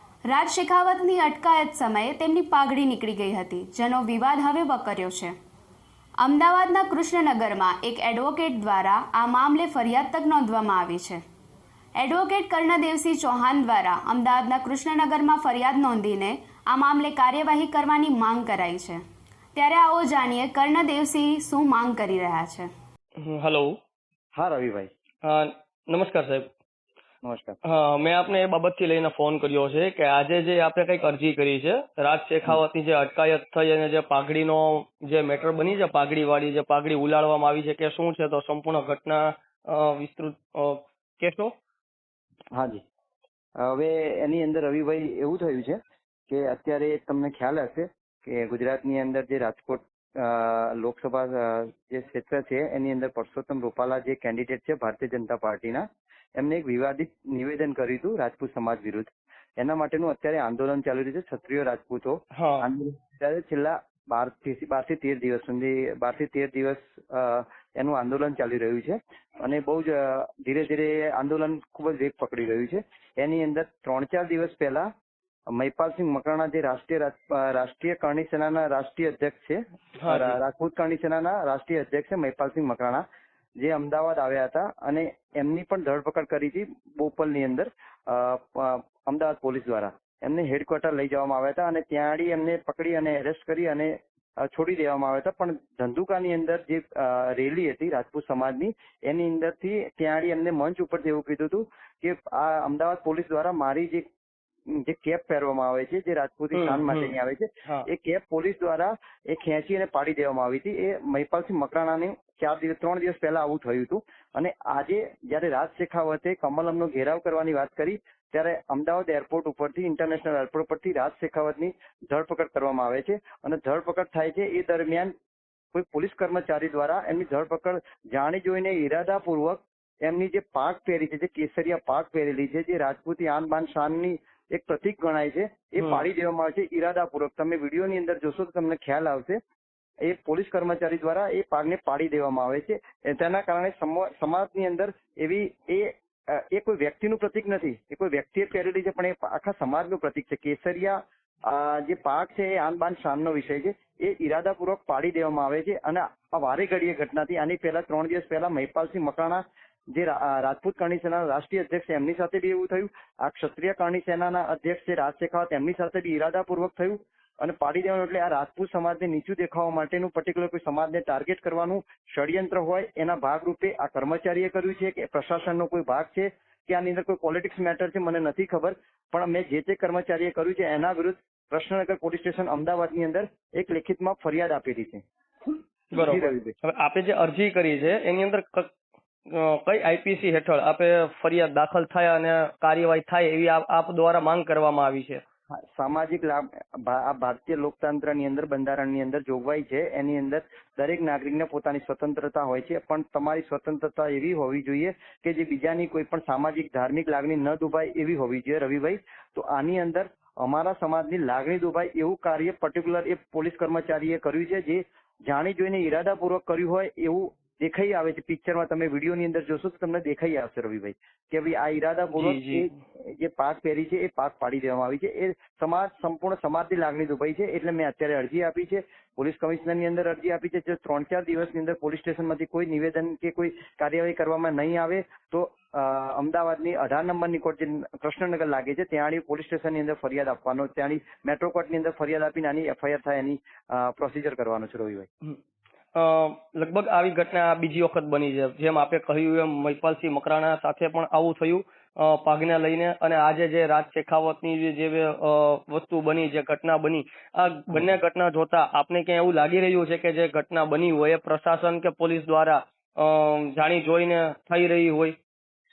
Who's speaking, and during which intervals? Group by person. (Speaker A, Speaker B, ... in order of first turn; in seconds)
Speaker A: 0.3-5.3, 6.2-11.2, 12.0-19.0, 19.5-22.7
Speaker B: 23.2-23.8, 25.2-26.5, 27.6-41.5, 62.3-62.6, 80.0-80.4, 106.5-107.1, 185.9-188.7, 189.3-195.2, 222.1-222.7, 245.9-265.2
Speaker C: 24.4-24.9, 27.2-27.6, 42.5-42.8, 43.6-45.8, 46.3-55.9, 56.4-74.9, 75.5-83.0, 83.6-104.0, 104.7-125.1, 125.7-139.4, 140.0-185.0, 185.9-186.5, 195.5-245.1